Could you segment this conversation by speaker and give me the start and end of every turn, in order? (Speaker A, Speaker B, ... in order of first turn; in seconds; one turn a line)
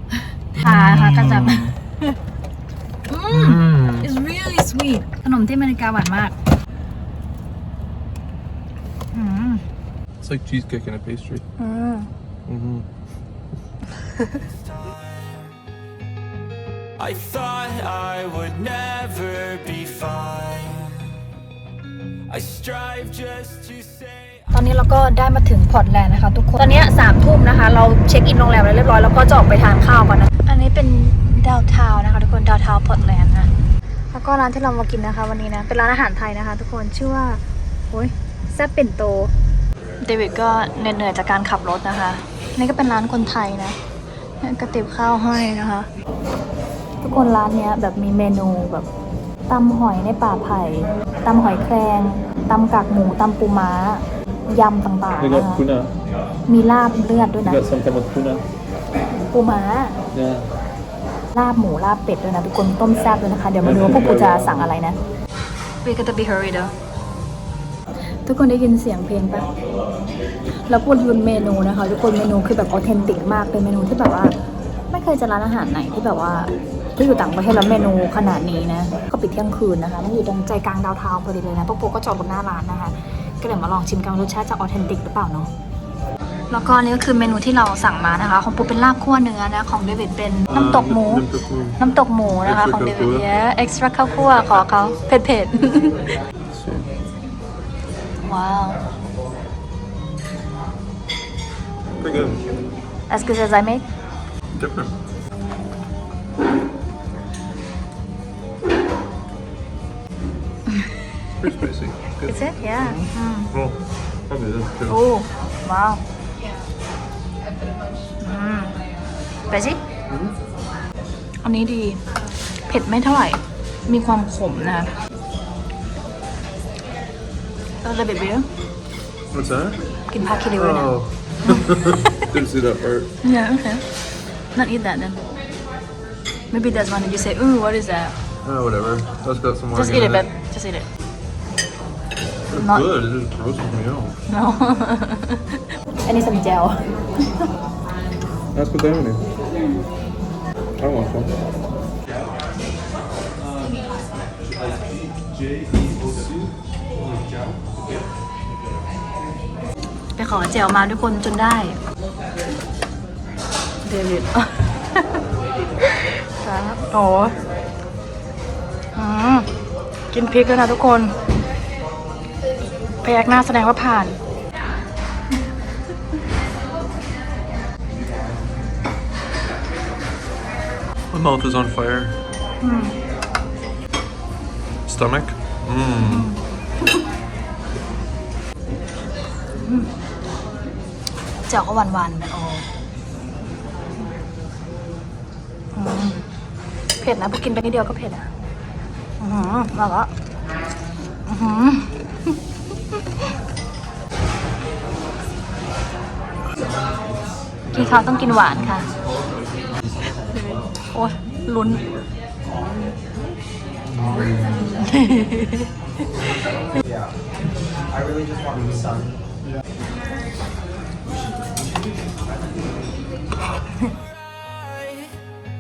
Speaker A: 0.6-1.7
Speaker B: 0.6-2.1
Speaker B: 3.1-6.3
Speaker A: 3.3-4.1
Speaker B: 9.1-9.6
Speaker A: 10.2-11.4
Speaker B: 11.6-12.1
Speaker A: 12.4-12.8
Speaker C: 14.4-15.6
Speaker C: 17.0-21.3
Speaker C: 22.3-24.5
Speaker B: 24.5-33.5
Speaker B: 34.1-39.3
Speaker B: 40.0-43.8
Speaker B: 44.4-45.9
Speaker B: 47.0-48.9
Speaker B: 49.5-55.6
Speaker A: 55.2-55.9
Speaker B: 56.5-57.7
Speaker A: 57.4-58.4
Speaker B: 59.1-60.0
Speaker A: 60.1-60.5
Speaker B: 61.3-65.0
Speaker A: 63.6-64.6
Speaker B: 65.8-66.7
Speaker B: 68.2-69.5
Speaker B: 70.7-74.3
Speaker B: 74.9-85.5
Speaker B: 86.5-91.2
Speaker A: 90.5-91.8
Speaker B: 91.8-96.0
Speaker A: 92.4-93.3
Speaker A: 96.5-96.9
Speaker B: 98.2-98.8
Speaker A: 102.0-102.4
Speaker B: 103.1-103.8
Speaker A: 104.5-104.9
Speaker A: 111.4-113.8
Speaker B: 112.2-113.5
Speaker A: 114.3-115.0
Speaker B: 114.9-116.0
Speaker B: 118.2-118.8
Speaker B: 119.5-119.8
Speaker A: 120.1-120.3
Speaker B: 121.4-122.0
Speaker B: 122.7-124.9
Speaker B: 127.8-128.5
Speaker A: 129.3-129.8
Speaker B: 130.1-132.3
Speaker A: 130.6-133.1
Speaker B: 133.2-133.8
Speaker B: 134.5-135.2
Speaker B: 136.5-138.2
Speaker A: 138.4-140.3
Speaker B: 139.7-140.9
Speaker A: 142.5-144.1
Speaker B: 142.6-142.9
Speaker B: 144.3-147.4
Speaker A: 148.5-149.2
Speaker A: 150.8-151.3
Speaker B: 160.2-161.8
Speaker B: 163.8-165.2
Speaker B: 166.4-167.3
Speaker B: 168.9-169.5
Speaker B: 170.1-171.1
Speaker B: 173.0-174.2
Speaker A: 181.1-182.2
Speaker B: 182.6-182.9
Speaker A: 184.9-186.3
Speaker B: 186.0-187.0
Speaker B: 189.6-189.9
Speaker B: 191.5-192.7
Speaker B: 195.7-196.2
Speaker B: 197.0-198.3
Speaker B: 199.2-200.1
Speaker B: 201.3-202.4
Speaker B: 207.7-208.9
Speaker B: 210.3-211.8
Speaker A: 213.9-214.7
Speaker B: 214.8-215.7
Speaker A: 218.5-218.9
Speaker C: 224.0-225.3